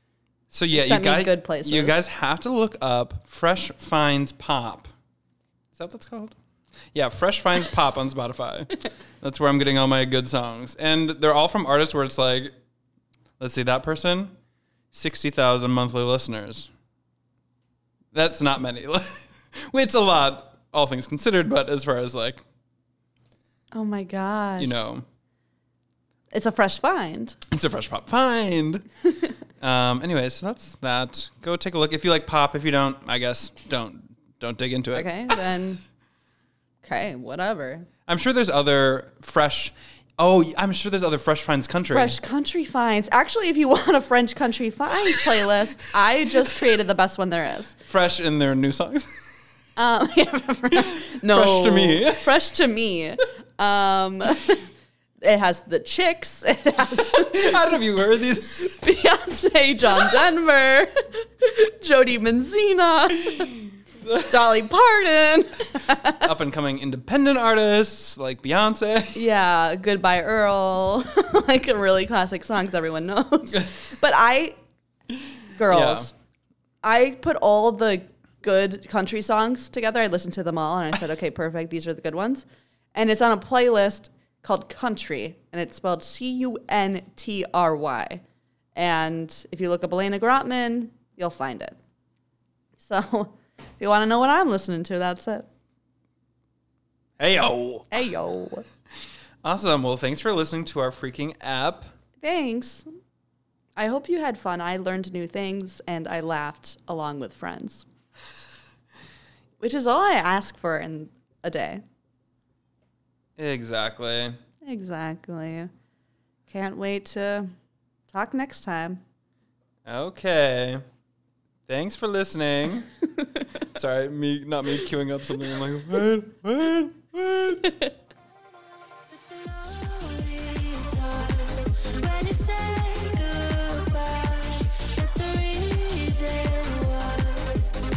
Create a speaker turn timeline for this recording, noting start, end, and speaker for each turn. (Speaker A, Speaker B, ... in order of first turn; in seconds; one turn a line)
Speaker A: 0.5-4.9
Speaker B: 0.7-2.0
Speaker A: 5.7-6.4
Speaker A: 6.9-12.5
Speaker A: 13.4-14.3
Speaker A: 14.9-16.7
Speaker A: 18.1-22.4
Speaker B: 23.7-24.9
Speaker A: 24.6-25.1
Speaker B: 26.3-27.4
Speaker A: 27.5-28.9
Speaker A: 29.6-35.4
Speaker B: 34.9-35.8
Speaker B: 36.8-37.9
Speaker A: 38.1-42.2
Speaker B: 41.9-47.8
Speaker A: 47.9-49.5
Speaker B: 49.8-54.6
Speaker A: 50.7-52.4
Speaker B: 55.2-57.7
Speaker A: 56.8-58.8
Speaker B: 58.7-63.5
Speaker B: 64.2-66.3
Speaker A: 66.2-69.3
Speaker B: 69.1-74.6
Speaker B: 75.5-76.1
Speaker A: 75.7-76.1
Speaker B: 76.8-88.2
Speaker B: 88.8-91.8
Speaker B: 92.8-95.5
Speaker A: 97.2-98.0
Speaker B: 97.9-98.7
Speaker A: 99.4-101.9
Speaker B: 102.2-102.9
Speaker B: 103.8-107.9
Speaker B: 109.6-111.8
Speaker A: 113.4-114.4
Speaker B: 114.6-115.7
Speaker B: 116.5-117.5
Speaker B: 118.1-119.0
Speaker A: 119.9-120.8
Speaker A: 121.7-122.9
Speaker A: 123.7-127.7
Speaker B: 127.6-127.9
Speaker C: 128.5-137.7